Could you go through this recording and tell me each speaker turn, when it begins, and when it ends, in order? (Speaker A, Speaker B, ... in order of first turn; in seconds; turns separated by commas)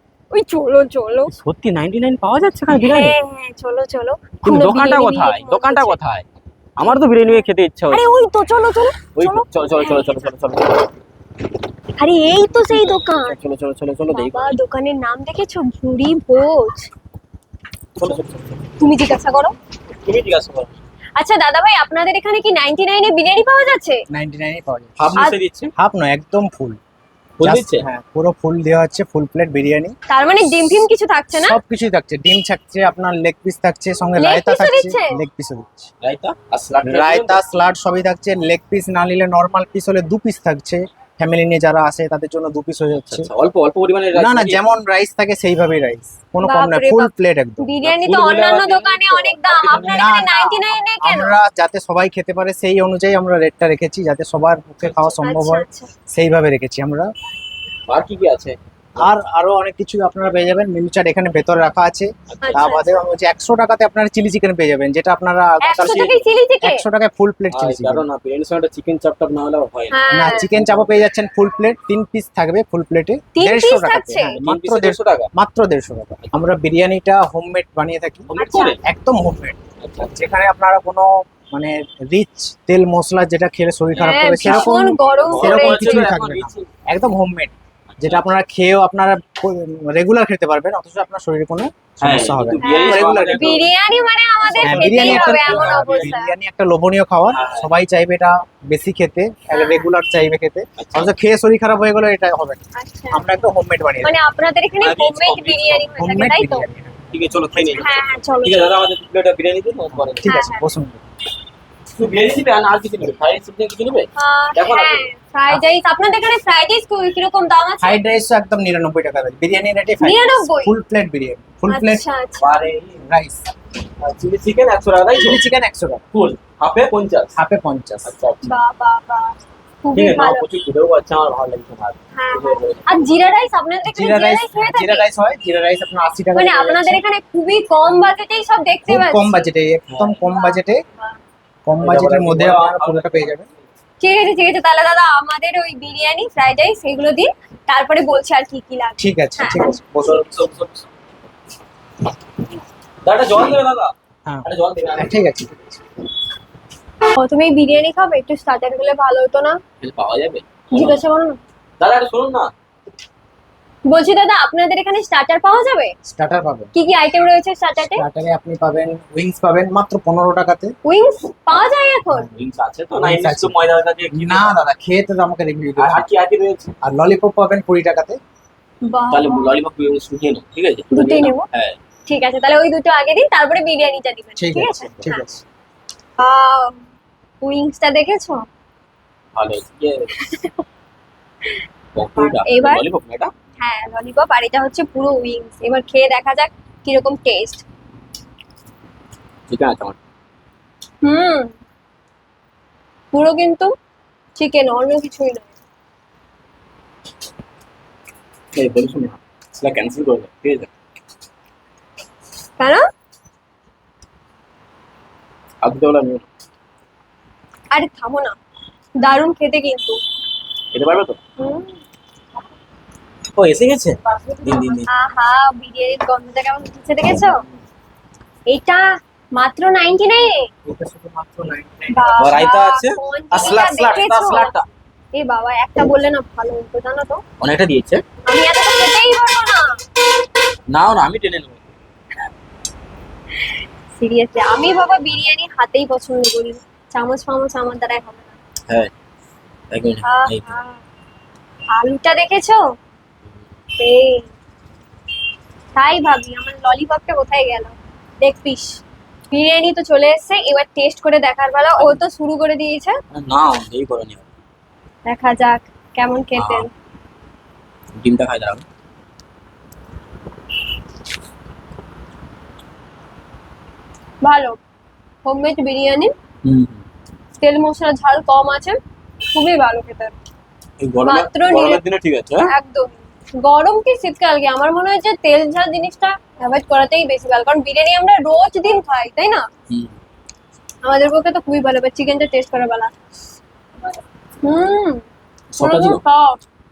Speaker A: 0.3-1.3, Speaker B: 1.3-3.2, Speaker A: 2.7-6.0, Speaker B: 4.4-6.2, Speaker B: 6.8-8.1, Speaker A: 6.9-10.0, Speaker B: 9.2-10.9, Speaker A: 12.0-13.4, Speaker B: 12.7-14.6, Speaker A: 14.1-16.9, Speaker B: 18.0-18.6, Speaker A: 18.8-19.6, Speaker B: 19.9-20.8, Speaker A: 21.2-24.1, Speaker C: 24.1-25.0, Speaker B: 25.0-25.7, Speaker C: 25.8-26.8, Speaker B: 27.4-27.9, Speaker C: 27.4-29.9, Speaker A: 30.1-31.6, Speaker C: 31.4-35.9, Speaker A: 34.2-35.2, Speaker B: 36.0-37.4, Speaker C: 36.8-43.3, Speaker B: 43.1-44.7, Speaker C: 44.1-47.7, Speaker A: 46.4-51.4, Speaker B: 47.8-50.1, Speaker C: 49.7-57.1, Speaker A: 55.2-55.9, Speaker B: 57.9-59.1, Speaker C: 59.0-68.1, Speaker B: 62.3-62.8, Speaker A: 62.4-63.0, Speaker A: 65.6-66.8, Speaker B: 65.8-66.2, Speaker B: 67.5-71.0, Speaker A: 69.9-70.5, Speaker C: 70.1-93.6, Speaker A: 73.3-74.4, Speaker B: 74.4-75.3, Speaker B: 78.3-78.8, Speaker A: 78.4-78.8, Speaker B: 79.8-80.2, Speaker B: 83.9-86.7, Speaker A: 84.0-86.1, Speaker B: 87.9-88.3, Speaker B: 92.0-93.7, Speaker A: 92.6-96.3, Speaker B: 94.5-96.2, Speaker C: 94.6-102.6, Speaker B: 97.3-97.7, Speaker A: 99.5-99.9, Speaker B: 100.8-101.1, Speaker A: 102.8-103.4, Speaker C: 103.1-104.2, Speaker A: 104.0-106.7, Speaker B: 104.8-106.0, Speaker C: 106.0-108.0, Speaker B: 107.1-110.3, Speaker A: 107.8-108.8, Speaker C: 109.9-111.0, Speaker A: 110.3-110.6, Speaker B: 112.0-115.1, Speaker A: 114.2-118.0, Speaker C: 117.8-122.0, Speaker A: 120.0-120.7, Speaker A: 121.7-122.6, Speaker B: 122.4-123.0, Speaker C: 123.0-123.5, Speaker B: 124.0-125.5, Speaker C: 125.2-126.0, Speaker B: 126.1-127.3, Speaker C: 127.4-128.2, Speaker B: 128.1-128.6, Speaker A: 128.4-130.5, Speaker B: 129.9-133.1, Speaker A: 132.1-135.1, Speaker C: 133.9-137.0, Speaker A: 136.3-139.4, Speaker C: 138.9-140.8, Speaker B: 139.9-140.3, Speaker C: 141.7-143.5, Speaker B: 141.8-143.5, Speaker A: 144.0-149.7, Speaker C: 149.0-150.2, Speaker B: 150.0-150.9, Speaker B: 153.0-153.9, Speaker C: 154.3-155.8, Speaker B: 154.4-155.2, Speaker A: 157.2-159.6, Speaker B: 159.8-161.0, Speaker A: 160.7-161.4, Speaker B: 161.8-162.5, Speaker A: 163.9-165.9, Speaker C: 166.1-166.7, Speaker A: 166.7-168.1, Speaker C: 167.8-170.7, Speaker A: 170.8-172.3, Speaker C: 172.1-172.4, Speaker B: 172.4-174.5, Speaker C: 172.9-173.6, Speaker C: 174.1-176.1, Speaker B: 175.8-176.7, Speaker C: 176.8-178.2, Speaker A: 178.8-179.6, Speaker B: 179.1-181.8, Speaker A: 180.9-181.5, Speaker A: 182.1-185.2, Speaker C: 184.4-185.4, Speaker A: 186.2-186.8, Speaker A: 187.4-188.5, Speaker B: 189.4-190.2, Speaker A: 190.2-190.6, Speaker B: 191.9-193.3, Speaker A: 192.2-192.8, Speaker A: 193.6-197.6, Speaker B: 199.5-200.0, Speaker A: 201.0-201.5, Speaker A: 203.1-203.7, Speaker A: 204.4-205.5, Speaker B: 208.6-210.7, Speaker B: 215.6-216.3, Speaker A: 217.7-218.3, Speaker A: 219.0-220.0, Speaker B: 220.7-221.2, Speaker A: 221.4-221.8, Speaker B: 223.4-224.9, Speaker A: 224.9-227.4, Speaker A: 228.5-228.8, Speaker A: 229.4-230.4, Speaker C: 230.7-232.4, Speaker A: 231.9-234.6, Speaker B: 232.2-234.7, Speaker C: 233.3-234.0, Speaker A: 235.1-237.2, Speaker B: 237.4-238.0, Speaker A: 238.3-239.8, Speaker B: 240.7-241.6, Speaker A: 243.9-248.3, Speaker B: 249.7-250.6, Speaker A: 250.0-250.8, Speaker A: 251.7-252.6, Speaker A: 253.8-254.3, Speaker A: 255.8-263.0, Speaker B: 261.8-262.0, Speaker B: 263.1-264.3, Speaker A: 265.1-266.7, Speaker B: 266.4-266.7, Speaker B: 268.0-268.6, Speaker A: 274.2-274.6, Speaker A: 275.2-276.1, Speaker B: 276.4-276.8, Speaker A: 277.4-278.8, Speaker A: 279.3-280.2, Speaker B: 280.8-282.5, Speaker A: 281.0-281.8, Speaker A: 282.4-289.4, Speaker A: 290.8-292.9, Speaker A: 294.4-295.0, Speaker B: 295.5-296.0, Speaker A: 295.6-296.4